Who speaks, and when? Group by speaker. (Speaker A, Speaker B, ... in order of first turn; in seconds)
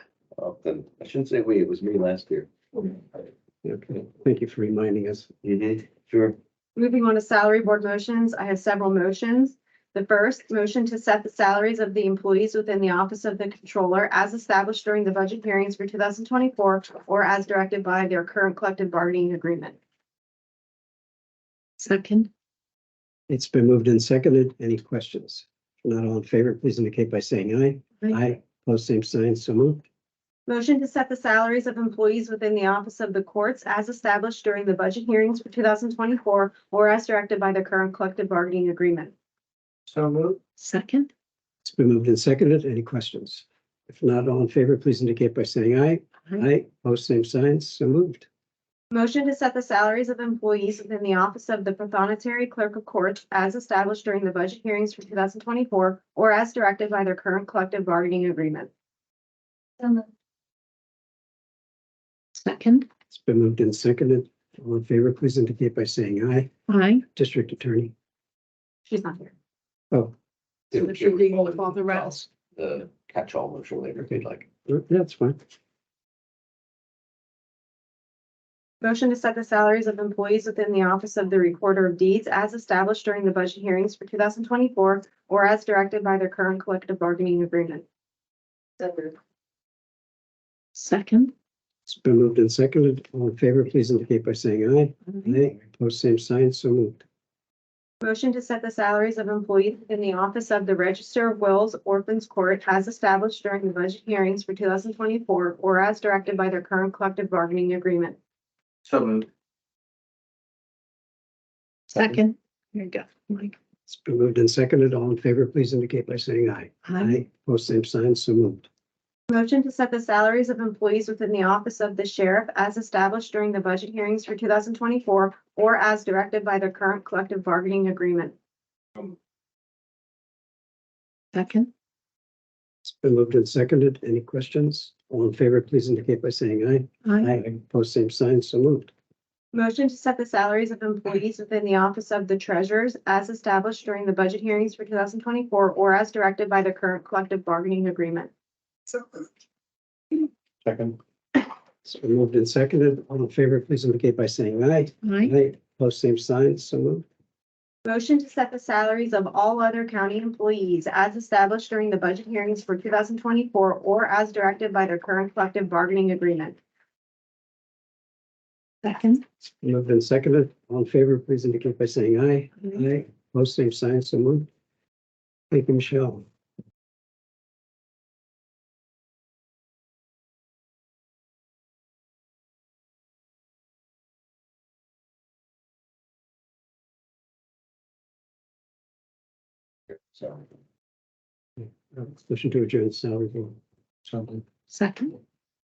Speaker A: 0.3-2.9, 5.4-6.3, 70.7-74.5, 108.9-109.3, 190.2-190.4
Speaker B: 3.6-5.3, 23.3-29.8, 40.0-40.3, 41.6-48.3, 63.1-66.5, 67.1-67.9, 74.1-75.4, 91.9-97.0, 113.9-118.7, 132.8-138.9, 151.8-157.0, 169.6-174.5, 175.5-176.2, 191.6-194.4
Speaker C: 6.8-19.8, 30.5-39.1, 48.9-58.7, 68.9-69.3, 78.8-87.8, 88.8-89.1, 98.0-108.2, 119.3-128.3, 139.5-148.3, 157.8-166.6
Speaker D: 21.8-22.3, 40.6-41.1, 62.4-62.9, 66.7-67.0, 70.7-72.3, 90.7-91.3, 111.9-113.5, 116.8-117.2, 131.3-131.7, 137.0-137.3, 155.0-155.3, 168.8-169.2, 194.7-195.2